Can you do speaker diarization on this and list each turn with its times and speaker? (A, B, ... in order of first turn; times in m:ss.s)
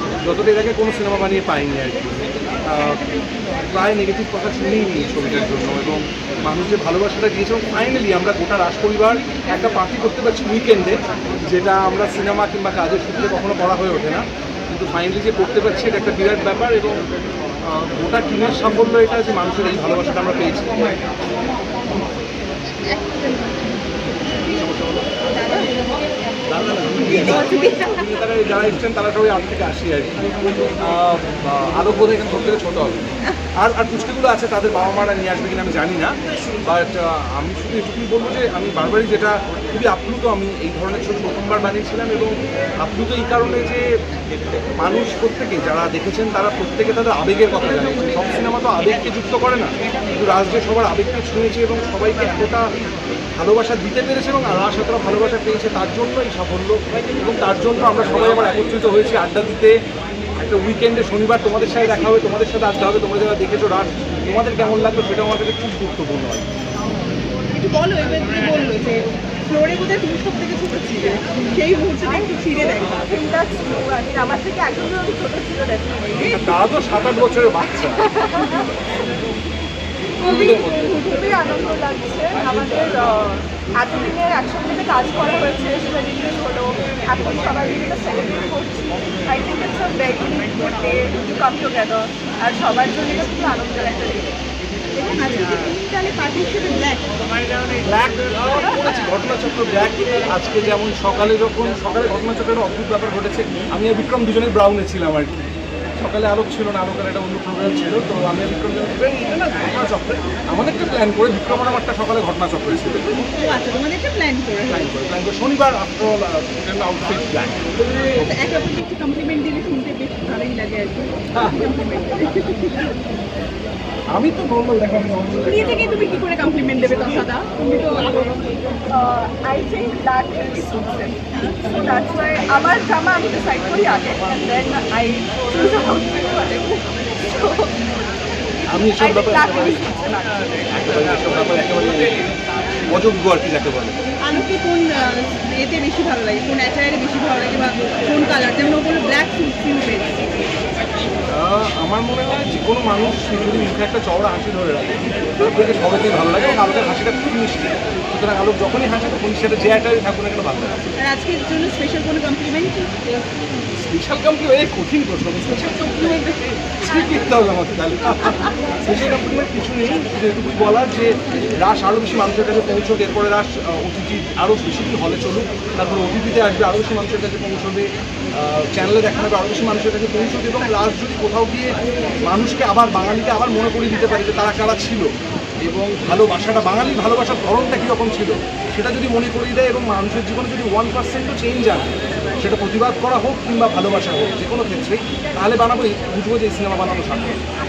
0:00.2-0:03.0 A
0:03.6-0:17.0 A
0:17.7-0:20.7 A
0:22.9-0:24.5 B
0:24.5-0:25.1 A
0:25.3-0:25.8 B
0:26.5-0:30.2 A
0:27.0-0:28.0 B
0:30.8-0:33.0 A
0:33.6-0:52.7 A
0:53.4-0:59.8 A
1:00.4-1:06.5 A
1:07.5-1:13.1 B
1:12.0-1:12.3 C
1:12.9-1:16.2 C
1:16.1-1:16.6 B
1:16.3-1:18.4 A
1:20.2-1:34.4 C
1:20.2-1:20.9 A
1:35.0-1:37.1 B
1:37.8-1:45.3 A
1:46.0-1:53.0 A
1:53.0-1:54.9 B
1:54.7-1:57.8 A
1:58.1-2:03.0 B
2:04.1-2:06.0 A
2:05.4-2:08.4 B
2:08.9-2:18.0 C
2:18.6-2:20.3 C
2:18.7-2:19.8 A
2:20.7-2:22.2 A
2:22.9-2:24.0 A
2:24.2-2:30.3 B
2:31.3-2:40.8 A
2:41.0-2:43.3 B
2:43.8-3:05.0 A
3:05.6-3:17.4 A